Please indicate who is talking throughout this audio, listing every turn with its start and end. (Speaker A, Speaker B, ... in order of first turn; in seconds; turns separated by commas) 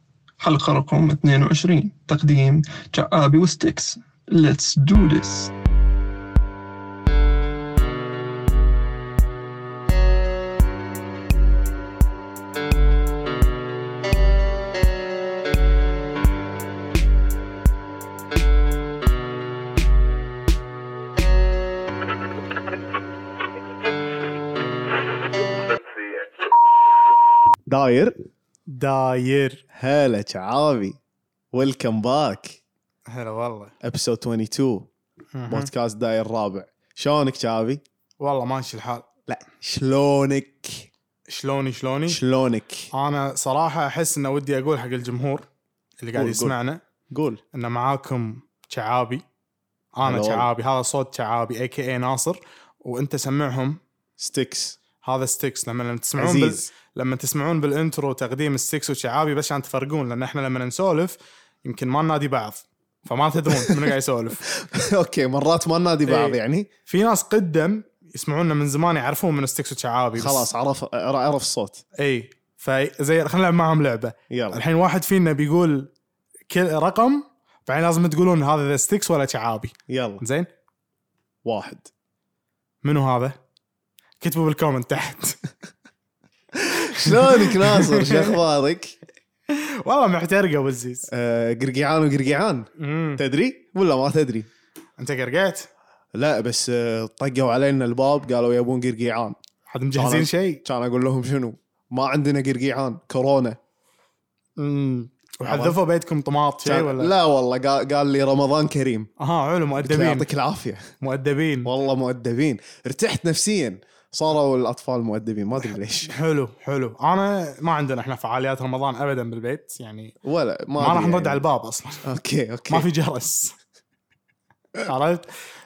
Speaker A: 0.4-5.5, Speaker B: 27.7-28.1, Speaker C: 28.7-29.6, Speaker B: 29.7-31.0, Speaker B: 31.5-32.6, Speaker C: 33.1-33.7, Speaker B: 33.8-34.9, Speaker C: 35.3-35.7, Speaker B: 35.5-37.8, Speaker C: 38.2-39.0, Speaker B: 39.3-40.9, Speaker C: 41.3-42.2, Speaker B: 42.1-42.9, Speaker C: 42.9-45.5, Speaker C: 46.0-46.8, Speaker B: 46.1-46.5, Speaker B: 47.1-47.4, Speaker C: 47.5-49.2, Speaker C: 50.0-53.8, Speaker B: 50.0-50.5, Speaker B: 54.2-54.8, Speaker C: 55.0-64.4, Speaker B: 56.2-56.7, Speaker B: 63.5-63.9, Speaker B: 64.4-66.7, Speaker C: 66.0-70.5, Speaker B: 70.2-71.8, Speaker C: 72.0-75.9, Speaker B: 74.3-74.6, Speaker C: 76.5-80.5, Speaker B: 79.9-80.2, Speaker B: 81.4-81.9, Speaker C: 82.8-83.3, Speaker C: 84.2-85.4, Speaker B: 86.5-89.0, Speaker C: 86.8-88.4, Speaker C: 89.5-91.1, Speaker B: 91.1-94.5, Speaker C: 92.8-93.2, Speaker C: 95.0-95.7, Speaker B: 96.1-99.4, Speaker C: 99.7-100.6, Speaker B: 99.9-103.6, Speaker C: 104.6-107.1, Speaker B: 105.4-105.8, Speaker B: 106.6-109.1, Speaker C: 109.2-110.3, Speaker B: 109.8-110.9, Speaker C: 111.0-111.7, Speaker B: 111.6-116.1, Speaker C: 116.1-120.1, Speaker B: 120.2-121.4, Speaker C: 120.8-122.0, Speaker B: 122.0-122.9, Speaker C: 122.7-123.5, Speaker C: 124.8-125.3